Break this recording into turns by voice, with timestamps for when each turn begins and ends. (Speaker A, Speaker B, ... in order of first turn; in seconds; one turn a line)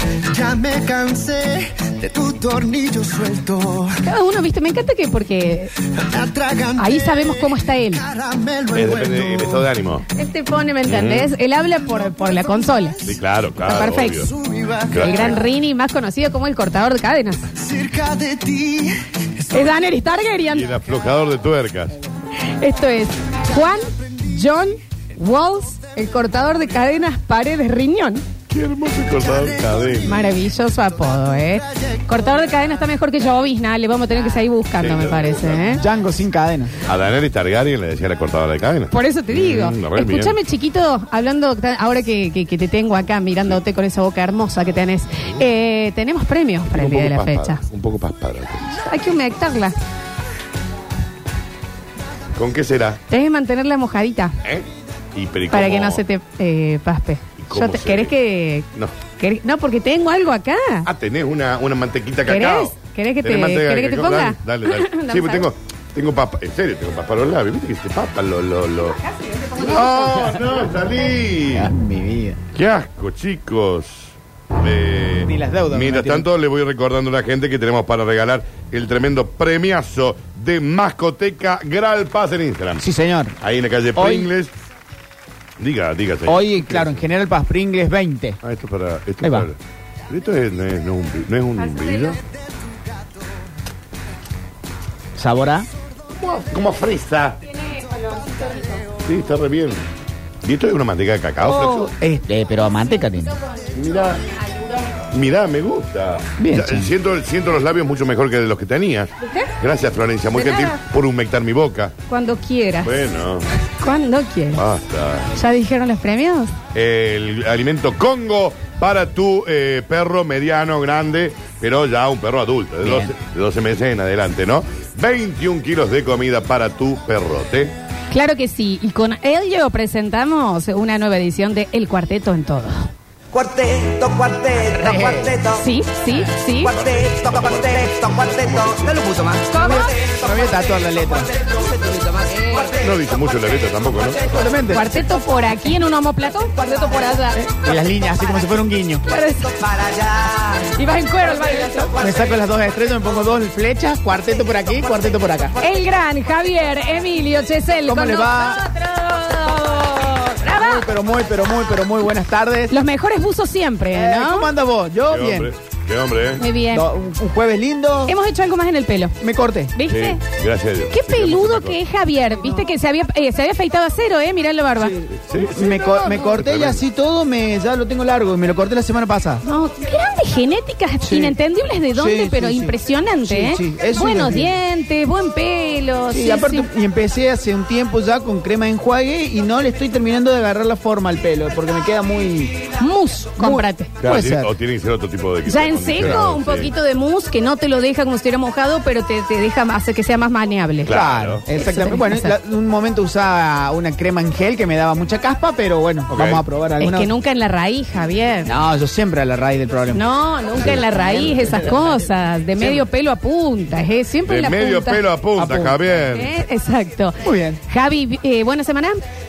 Speaker A: 0.3-4.0
Speaker B: 4.0-5.7
Speaker A: 6.0-9.7
Speaker B: 6.8-8.0
Speaker C: 8.7-10.1
Speaker B: 10.1-13.1
Speaker C: 10.8-11.3
Speaker A: 11.9-15.5
Speaker C: 13.0-14.3
Speaker B: 13.6-14.3
Speaker C: 14.9-15.4
Speaker B: 15.0-17.4
Speaker A: 17.5-20.1
Speaker B: 19.5-20.7
Speaker C: 20.5-22.0
Speaker B: 22.4-28.2
Speaker C: 28.5-30.2
Speaker A: 29.0-32.4
Speaker B: 30.0-35.8
Speaker C: 34.8-35.8
Speaker D: 35.8-36.7
Speaker C: 36.8-40.4
Speaker B: 38.9-47.6
Speaker C: 46.7-48.8
Speaker B: 48.7-49.8
Speaker C: 52.4-53.0
Speaker B: 53.1-54.4
Speaker C: 54.4-56.0
Speaker B: 55.5-58.7
Speaker C: 57.4-58.2
Speaker B: 59.2-60.9
Speaker C: 60.9-69.0
Speaker B: 62.3-65.5
Speaker B: 68.8-70.2
Speaker C: 69.6-71.7
Speaker D: 71.5-72.4
Speaker C: 72.5-82.8
Speaker D: 75.2-76.3
Speaker D: 82.8-83.3
Speaker C: 83.4-84.5
Speaker D: 84.0-84.3
Speaker C: 85.6-87.0
Speaker D: 86.3-88.4
Speaker C: 88.4-89.6
Speaker D: 89.2-89.5
Speaker C: 90.1-92.2
Speaker B: 91.6-92.1
Speaker D: 95.2-95.7
Speaker C: 96.2-97.4
Speaker B: 97.5-98.8
Speaker C: 99.0-99.8
Speaker C: 100.4-101.9
Speaker B: 101.4-101.9
Speaker D: 101.8-103.4
Speaker C: 103.8-104.2
Speaker B: 104.4-104.9
Speaker C: 105.1-112.0
Speaker D: 106.4-106.9
Speaker B: 109.2-109.5
Speaker B: 110.3-110.8
Speaker B: 112.1-112.9
Speaker C: 112.8-113.5
Speaker B: 113.7-114.6
Speaker C: 114.5-115.3
Speaker B: 115.3-116.5
Speaker C: 116.7-127.7
Speaker D: 122.8-123.1
Speaker B: 128.1-132.9
Speaker E: 133.3-135.7
Speaker D: 134.7-135.3
Speaker B: 135.6-136.8
Speaker E: 136.6-144.5
Speaker C: 136.7-138.9
Speaker B: 139.5-139.9
Speaker D: 139.6-141.3
Speaker B: 142.3-142.7
Speaker C: 142.8-144.2
Speaker D: 144.2-145.0
Speaker B: 144.7-147.4
Speaker D: 147.3-149.0
Speaker B: 149.0-149.6
Speaker E: 149.4-152.4
Speaker B: 150.7-152.0
Speaker D: 152.0-155.6
Speaker E: 154.3-155.1
Speaker B: 155.6-160.9
Speaker D: 157.8-158.6
Speaker D: 160.6-162.8
Speaker B: 162.7-164.5
Speaker D: 163.9-165.5
Speaker C: 165.1-166.5
Speaker B: 166.4-166.9
Speaker D: 166.7-168.2
Speaker B: 168.1-169.2
Speaker D: 169.2-169.7
Speaker B: 169.8-170.2
Speaker C: 169.8-171.8
Speaker B: 170.9-175.0
Speaker D: 174.8-179.4
Speaker C: 175.2-176.8
Speaker B: 179.4-186.7
Speaker D: 181.0-181.4
Speaker D: 181.9-182.8
Speaker D: 183.3-184.6
Speaker D: 186.1-192.7
Speaker B: 192.8-193.9
Speaker D: 193.4-194.5
Speaker C: 194.0-196.7
Speaker B: 195.5-200.9
Speaker C: 200.8-201.4
Speaker D: 200.9-207.1
Speaker B: 201.6-202.4
Speaker C: 206.1-206.4
Speaker B: 206.8-208.5
Speaker D: 208.5-210.0
Speaker B: 209.9-215.0
Speaker C: 210.6-211.6
Speaker D: 210.6-211.8
Speaker D: 212.6-212.9
Speaker C: 214.2-216.4
Speaker D: 215.3-215.9
Speaker B: 216.1-219.0
Speaker D: 217.2-217.6